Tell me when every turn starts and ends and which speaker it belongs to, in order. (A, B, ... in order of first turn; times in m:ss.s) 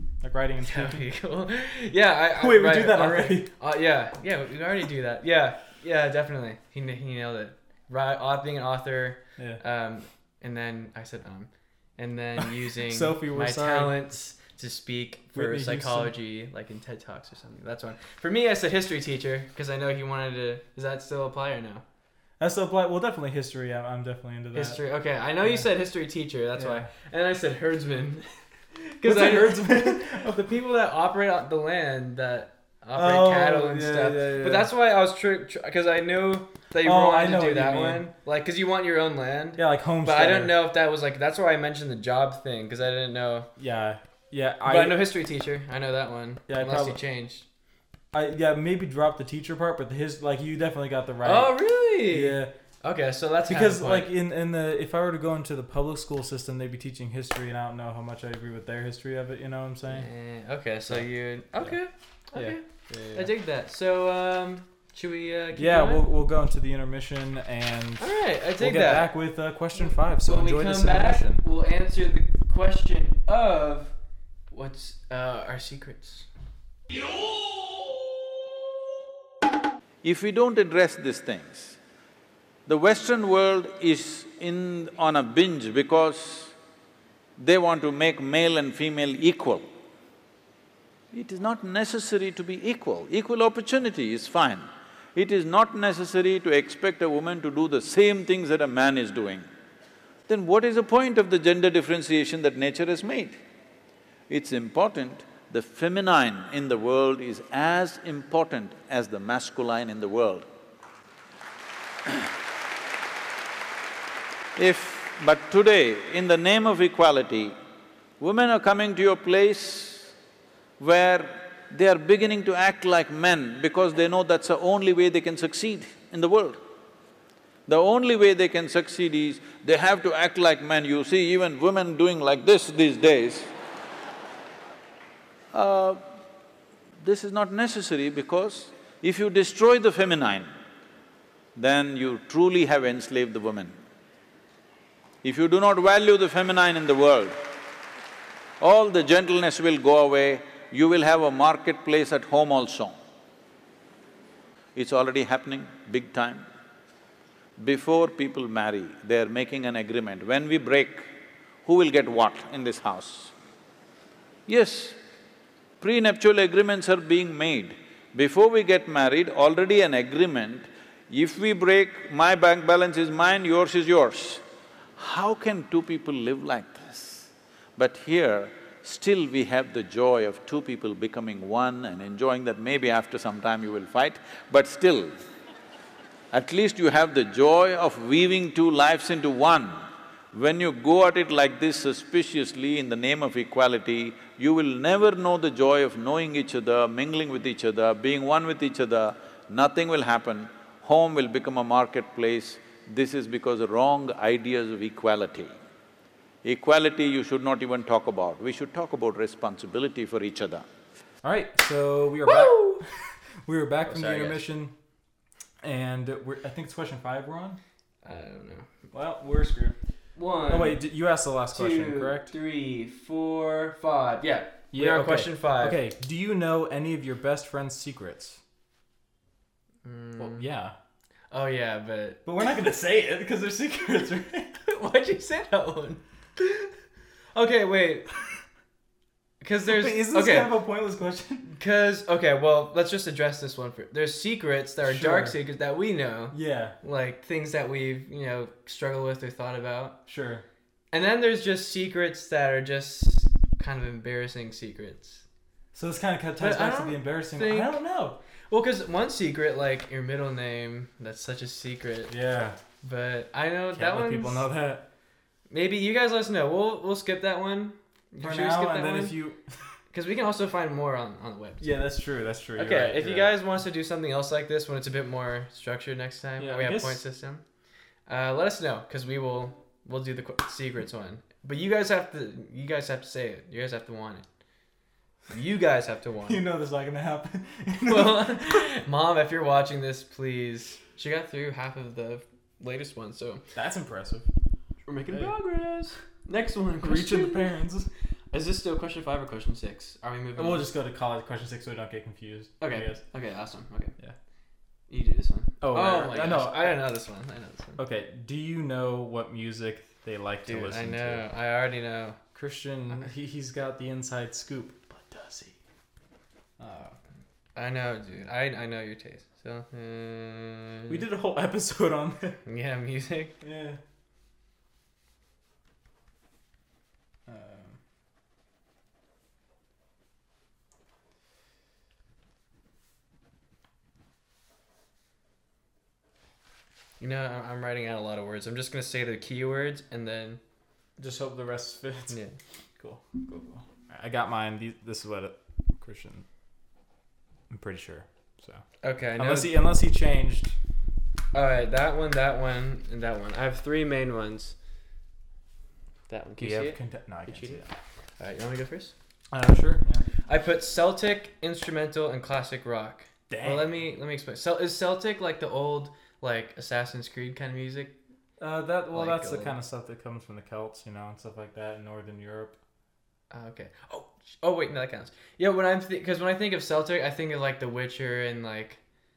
0:00.2-0:01.1 A
0:00.6-0:21.8 B
0:02.4-0:03.5 A
0:12.4-0:14.0 A
0:15.3-0:16.1 A
0:22.4-0:24.8 A
0:24.5-0:43.5 B
0:26.6-0:26.9 A
0:29.0-0:30.4 A
0:32.9-0:34.7 A
0:36.8-0:38.1 A
0:39.6-0:40.6 A
0:43.6-0:45.0 A
0:44.6-0:47.4 B
0:46.5-0:47.0 A
0:48.1-0:51.6 A
0:51.2-0:54.1 B
0:52.1-0:52.5 A
0:53.5-1:00.1 A
0:59.9-1:06.1 B
1:02.4-1:03.3 A
1:05.6-1:11.4 A
1:08.0-1:09.1 B
1:09.8-1:13.9 B
1:14.5-1:16.3 B
1:20.0-1:21.8 C
1:22.7-1:26.5 C
1:27.4-1:29.7 C
1:31.1-1:39.4 C
1:40.3-1:43.4 C
1:44.3-1:50.5 C
1:54.6-1:57.6 C
1:58.2-2:00.1 C
2:00.8-2:06.6 C
2:07.7-2:13.5 C
2:15.5-2:16.0 C
2:17.0-2:20.5 C
2:21.6-2:23.8 C
2:25.2-2:27.4 C
2:28.6-2:33.0 C
2:34.8-2:36.4 C
2:37.6-2:41.1 C
2:41.6-2:43.3 C
2:44.5-2:45.0 C
2:45.8-2:54.4 C
2:55.0-3:05.2 C
3:06.3-3:25.6 C
3:26.4-3:30.6 C
3:31.2-3:34.7 A
3:32.2-3:32.8 B
3:33.9-3:34.4 B
3:35.6-3:37.6 A
3:38.0-3:38.7 B
3:38.9-3:39.8 A
3:40.2-3:40.8 B
3:40.5-3:42.3 A
3:41.5-3:45.8 B
3:44.7-3:48.4 A
3:49.8-3:50.4 B
3:50.2-3:50.8 A
3:51.3-3:52.2 B
3:52.2-3:54.6 A
3:54.6-3:56.7 B
3:57.4-3:58.1 B
3:59.4-4:00.5 B
3:59.6-4:01.5 A
4:01.5-4:10.0 B
4:04.8-4:05.4 A
4:06.3-4:06.8 A
4:10.1-4:10.4 A
4:10.9-4:15.2 B
4:15.7-4:18.2 A
4:16.4-4:17.7 B
4:18.5-4:22.1 B
4:22.1-4:22.6 A
4:22.8-4:24.5 B
4:23.7-4:24.8 A
4:25.5-4:29.2 B
4:28.2-4:29.4 A
4:29.9-4:31.7 B
4:31.6-4:33.4 A
4:32.6-4:37.4 B
4:36.4-4:37.0 A
4:38.1-4:44.2 B
4:45.3-4:46.4 B
4:46.3-4:48.7 A
4:47.8-4:53.4 B
4:53.6-4:54.3 A
4:54.9-4:57.5 B
4:56.8-4:57.9 A
4:58.3-5:00.7 B
5:00.4-5:03.0 A
5:02.6-5:04.0 B
5:04.9-5:07.8 B
5:05.6-5:06.8 A
5:07.8-5:11.2 A
5:10.4-5:12.2 B
5:12.4-5:15.6 A
5:16.6-5:17.0 A
5:17.6-5:21.0 B
5:20.9-5:22.4 A
5:22.4-5:23.4 B
5:23.4-5:23.8 A
5:27.3-5:27.8 A
5:37.0-5:40.4 B
5:41.0-5:42.2 A
5:42.1-5:42.4 B
5:42.8-5:46.2 A
5:47.5-5:48.6 A
5:48.8-5:49.6 B
5:49.2-5:50.6 A
5:51.3-5:54.6 B
5:56.1-5:57.6 B
5:56.4-5:57.7 A
5:58.2-5:58.9 B
5:59.3-6:00.0 A
6:00.3-6:07.9 B
6:03.3-6:03.8 A
6:08.4-6:12.6 A
6:08.9-6:09.6 B
6:13.3-6:18.8 B